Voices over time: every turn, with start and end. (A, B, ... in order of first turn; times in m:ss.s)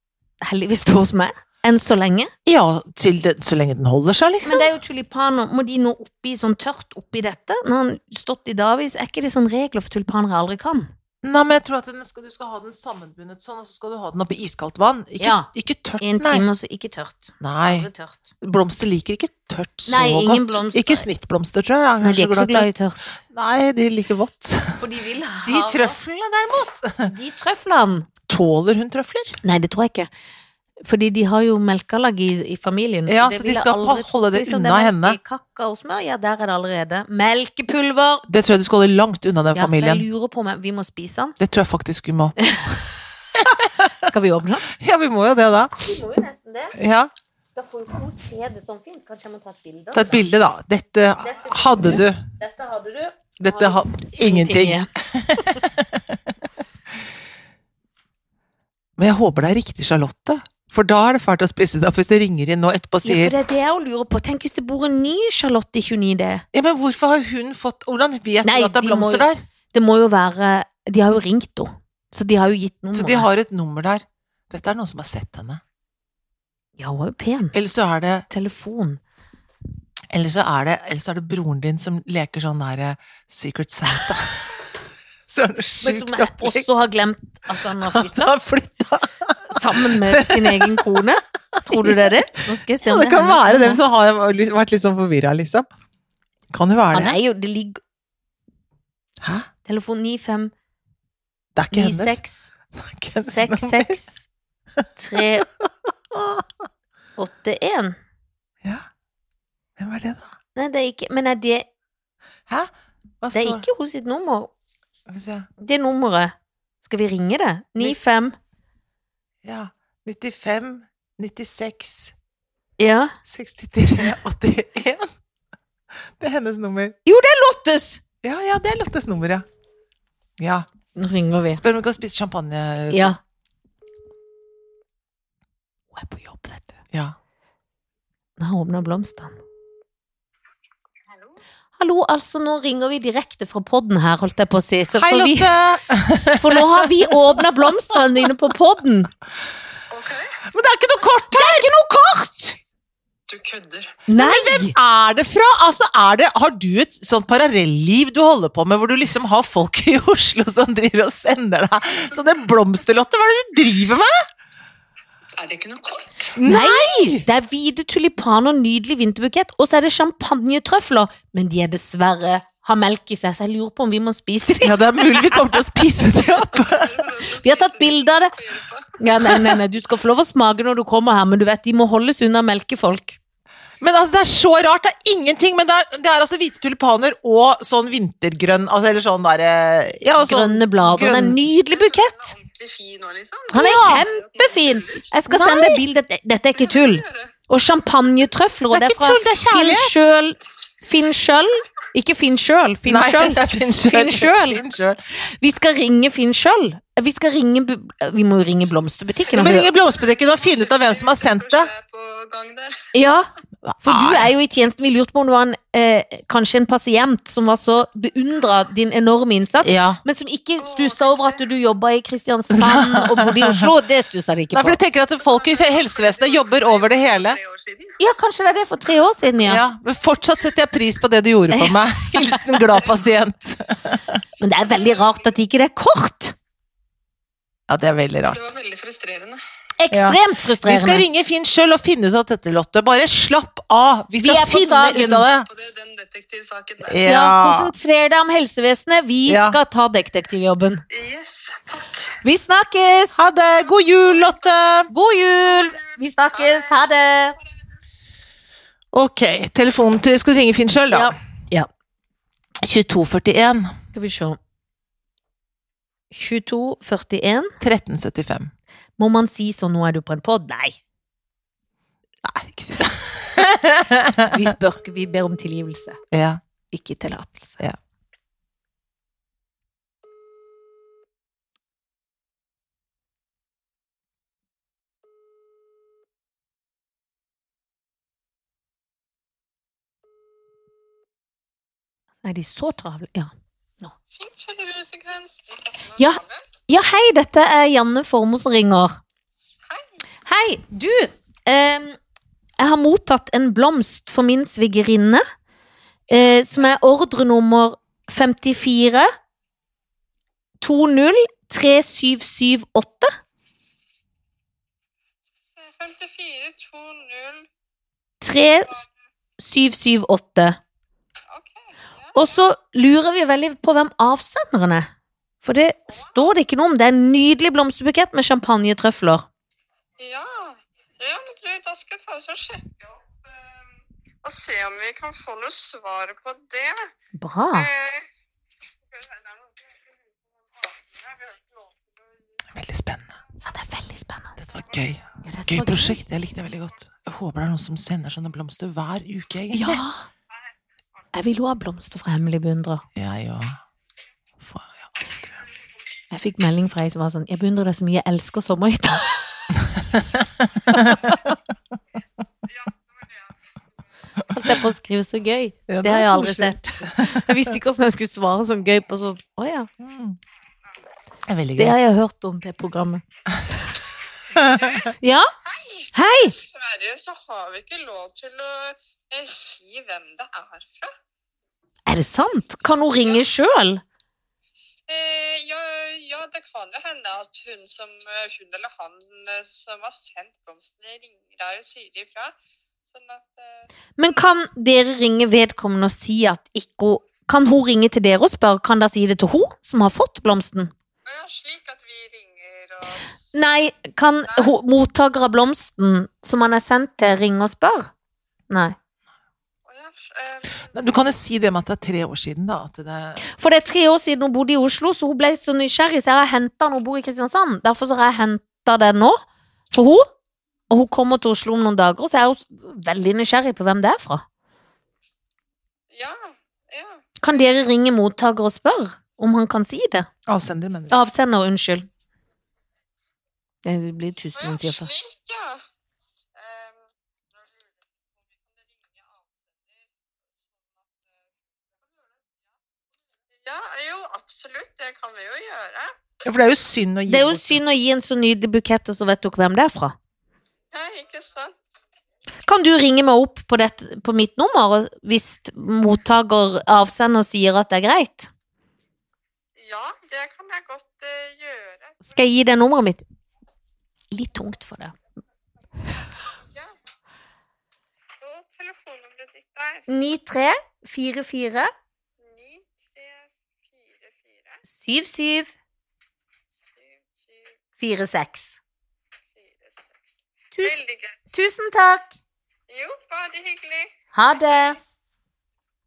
0:00.4-0:02.3 A
0:02.4-0:04.7 B
0:04.4-0:10.9 A
0:11.2-0:16.5 B
0:15.2-0:18.3 A
0:17.4-0:17.9 B
0:18.4-0:22.7 B
0:19.9-0:21.1 A
0:22.0-0:23.0 A
0:23.2-0:24.8 B
0:24.8-0:26.0 A
0:25.4-0:27.1 B
0:27.0-0:28.1 A
0:28.3-0:29.4 B
0:29.4-0:30.1 A
0:30.8-0:38.2 A
0:33.1-0:35.2 B
0:38.3-0:40.0 B
0:39.5-0:41.4 A
0:41.4-0:42.4 B
0:42.4-0:42.8 A
0:43.4-0:44.1 B
0:43.5-0:44.7 A
0:44.7-0:45.8 B
0:45.8-0:46.8 A
0:46.8-0:47.1 B
0:47.5-0:50.2 A
0:49.9-0:52.2 B
0:51.2-0:55.6 A
0:53.4-0:56.2 B
0:59.0-1:03.4 B
1:03.0-1:06.4 A
1:06.5-1:09.4 B
1:08.4-1:13.3 A
1:12.9-1:15.6 B
1:16.8-1:17.5 A
1:17.5-1:18.2 B
1:18.3-1:19.0 A
1:20.1-1:24.7 B
1:25.3-1:26.7 B
1:25.8-1:28.3 A
1:27.8-1:31.0 B
1:29.4-1:33.8 A
1:31.6-1:32.2 B
1:32.8-1:35.7 B
1:36.5-1:37.2 B
1:36.9-1:37.8 A
1:39.2-1:39.5 B
1:39.7-1:40.5 A
1:41.5-1:42.2 B
1:41.7-1:42.5 A
1:42.7-1:44.0 B
1:43.2-1:44.3 A
1:45.0-1:45.5 A
1:45.2-1:46.5 B
1:47.2-1:48.0 A
1:49.8-1:50.3 B
1:50.6-1:51.7 A
1:52.5-1:53.7 B
1:53.3-1:54.5 A
1:55.1-1:55.5 B
1:55.6-1:58.4 A
1:59.4-2:02.1 B
2:02.8-2:03.2 A
2:03.2-2:05.1 B
2:06.2-2:07.0 B
2:07.0-2:08.0 A
2:08.2-2:09.4 B
2:10.4-2:10.7 B
2:11.0-2:11.6 A
2:11.5-2:13.2 B
2:12.9-2:13.2 A
2:15.9-2:16.8 A
2:18.4-2:19.4 A
2:21.8-2:25.5 A
2:24.9-2:28.0 B
2:26.4-2:29.1 A
2:29.9-2:30.4 C
2:30.5-2:31.7 B
2:31.3-2:32.6 A
2:33.3-2:34.0 C
2:34.1-2:34.7 A
2:34.1-2:44.1 B
2:45.4-2:46.2 C
2:46.3-2:47.2 B
2:46.4-2:55.6 A
2:54.6-2:57.1 B
2:56.5-2:58.9 C
2:57.4-2:58.4 A
2:59.0-3:03.2 A
2:59.3-2:59.5 B
3:03.8-3:11.4 B
3:10.2-3:12.3 A
3:11.7-3:15.0 C
3:13.5-3:24.6 A
3:13.5-3:14.1 B
3:15.3-3:15.8 B
3:16.6-3:17.3 C
3:18.7-3:20.2 B
3:22.8-3:25.0 B
3:25.3-3:29.7 A
3:29.3-3:31.7 B
3:29.8-3:32.9 C
3:32.9-3:33.3 A
3:33.6-3:34.3 B
3:33.8-3:44.8 A
3:39.6-3:40.0 B
3:40.6-3:41.4 C
3:42.5-3:43.7 B
3:44.5-3:47.4 B
3:45.2-3:48.0 C
3:48.0-3:49.6 A
3:49.4-3:54.2 B
3:51.5-3:52.6 A
3:54.4-3:56.3 A
3:54.6-3:55.2 C
3:57.7-3:58.4 B
3:58.2-3:59.4 C
3:59.8-4:01.0 A
3:59.9-4:05.5 B
4:04.2-4:05.2 A
4:05.4-4:07.0 C
4:06.8-4:07.7 B
4:07.0-4:10.8 A
4:09.3-4:09.6 B
4:10.9-4:12.0 C
4:12.2-4:13.1 A
4:13.2-4:14.9 B
4:13.5-4:14.5 C
4:14.9-4:17.4 A
4:16.4-4:16.7 C
4:18.9-4:21.1 B
4:20.9-4:21.7 A
4:22.6-4:23.8 B
4:23.9-4:24.4 A
4:26.1-4:27.5 A
4:27.6-4:28.5 B
4:29.0-4:30.8 A
4:32.2-4:34.5 B
4:34.3-4:36.0 A
4:36.1-4:36.4 B
4:36.7-4:37.6 A
4:52.2-4:53.9 A
4:54.2-4:56.5 C
4:56.0-4:59.0 A
5:00.2-5:02.0 A
5:02.6-5:05.2 A
5:06.1-5:09.1 A
5:06.1-5:06.5 C
5:10.6-5:13.1 A
5:15.6-5:17.5 C
5:18.2-5:18.8 A
5:19.4-5:20.6 A
5:21.3-5:22.3 C
5:22.1-5:24.9 A
5:25.4-5:29.3 A
5:25.9-5:26.2 C
5:30.0-5:33.6 C
5:34.2-5:36.9 C
5:37.2-5:37.7 A
5:37.5-5:38.0 C
5:38.9-5:39.9 C
5:40.6-5:41.7 C
5:42.5-5:43.2 B
5:43.4-5:44.3 A
5:44.4-5:49.8 B
5:45.2-5:46.0 A
5:49.5-5:50.1 A
5:51.1-5:52.8 A
5:53.0-5:53.6 B
5:54.4-5:55.2 B
5:56.1-5:59.1 A
5:59.8-6:01.1 B
6:00.7-6:01.3 A
6:02.6-6:03.2 C
6:04.3-6:09.7 A
6:04.3-6:04.6 B
6:05.7-6:07.5 B
6:09.8-6:10.2 B
6:11.3-6:11.8 B
6:11.6-6:13.8 A
6:14.3-6:14.9 B
6:14.5-6:14.9 C
6:15.0-6:15.3 A
6:15.4-6:20.9 C
6:15.9-6:16.4 A
6:21.9-6:23.8 A
6:24.9-6:32.3 C
6:32.9-6:33.7 C
6:34.0-6:40.7 A
6:41.0-6:43.2 C
6:43.3-6:47.9 A
6:48.5-6:48.8 A
6:49.7-6:50.8 C
6:50.7-6:53.2 B
6:53.2-6:59.2 A
6:59.7-7:00.0 A
7:00.7-7:04.2 A
7:05.9-7:07.1 C
7:07.2-7:10.1 A
7:10.3-7:11.0 B
7:10.9-7:11.9 A
7:13.6-7:14.9 A
7:14.4-7:15.6 C
7:16.3-7:16.8 C
7:18.5-7:19.7 C
7:23.4-7:26.0 C
7:26.2-7:27.6 B
7:27.1-7:30.0 A
7:30.7-7:31.6 C
7:32.4-7:38.3 A
7:39.6-7:42.2 C
7:42.0-7:43.0 A
7:44.1-7:45.0 A
7:48.2-7:49.8 C
7:49.9-7:51.7 A
7:52.2-7:54.6 C
7:54.7-7:55.5 A
7:56.8-7:57.5 C
7:57.8-7:58.6 A
7:59.4-7:59.9 C
8:00.5-8:00.8 A
8:00.6-8:01.2 C
8:01.3-8:02.2 A
8:02.7-8:04.0 C
8:04.2-8:04.8 A